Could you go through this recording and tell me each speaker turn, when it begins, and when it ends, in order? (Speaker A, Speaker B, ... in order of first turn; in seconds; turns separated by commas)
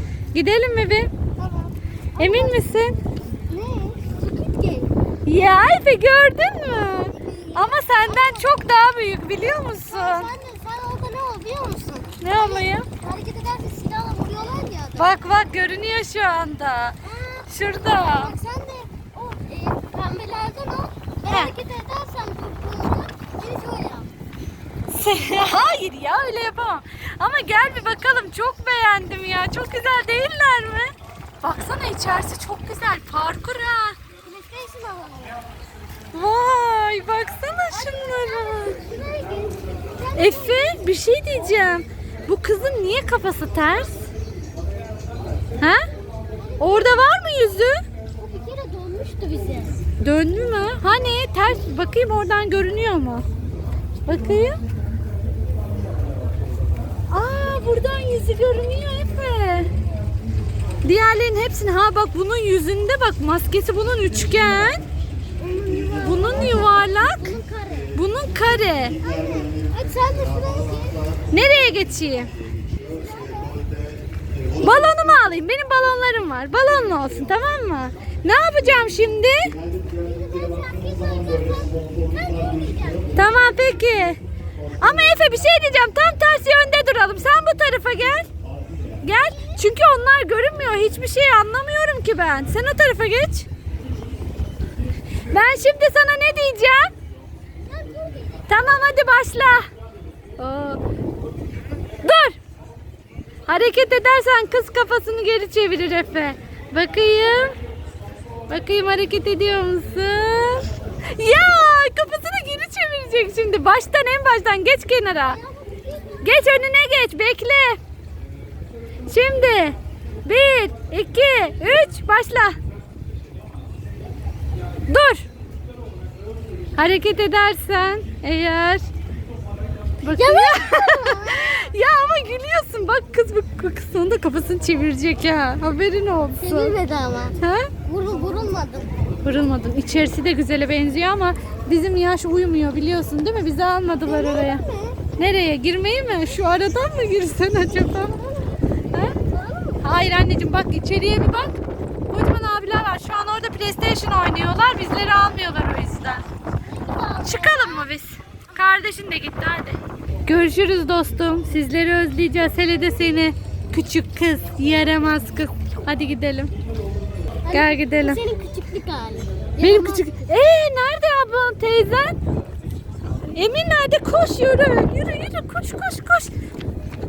Speaker A: 0.3-1.1, Speaker B: 1.4-2.6, Speaker A: 2.2-3.0, Speaker B: 3.5-4.9, Speaker A: 5.2-10.3, Speaker B: 7.0-8.6, Speaker B: 9.9-15.2, Speaker A: 12.2-12.9, Speaker A: 15.0-18.3, Speaker B: 17.0-24.1, Speaker A: 24.9-34.0, Speaker B: 34.2-35.4, Speaker A: 36.1-38.8, Speaker B: 37.7-40.8, Speaker A: 40.2-44.1, Speaker B: 46.4-47.1, Speaker A: 46.6-47.8, Speaker B: 48.2-49.8, Speaker A: 50.0-53.2, Speaker A: 54.0-54.6, Speaker A: 57.1-59.7, Speaker A: 60.8-64.8, Speaker B: 65.4-68.0, Speaker A: 66.0-67.3, Speaker A: 67.9-69.0, Speaker B: 69.0-71.0, Speaker A: 71.3-72.3, Speaker B: 72.9-73.7, Speaker A: 74.6-79.5, Speaker B: 74.6-74.9, Speaker B: 79.9-83.2, Speaker A: 83.1-84.2, Speaker A: 84.8-88.3, Speaker A: 89.0-93.5, Speaker B: 89.3-89.6, Speaker A: 95.3-96.9, Speaker B: 97.7-98.7, Speaker A: 98.5-99.6, Speaker A: 100.4-100.8, Speaker A: 102.0-102.4, Speaker A: 103.5-107.5, Speaker A: 108.5-115.4, Speaker B: 115.2-116.6, Speaker A: 116.2-117.8, Speaker A: 119.1-122.5, Speaker A: 124.9-125.3, Speaker A: 126.8-128.9, Speaker A: 130.0-136.7, Speaker B: 130.1-131.6, Speaker B: 136.4-138.9, Speaker A: 137.4-137.7, Speaker A: 139.2-144.6, Speaker B: 144.1-145.0, Speaker A: 145.2-148.1, Speaker B: 147.5-149.9, Speaker A: 148.9-149.2, Speaker A: 149.8-151.5, Speaker A: 152.1-156.2, Speaker B: 156.6-157.9, Speaker A: 157.2-166.5, Speaker B: 167.4-170.4, Speaker A: 167.5-168.2, Speaker A: 169.6-172.2, Speaker A: 173.3-176.3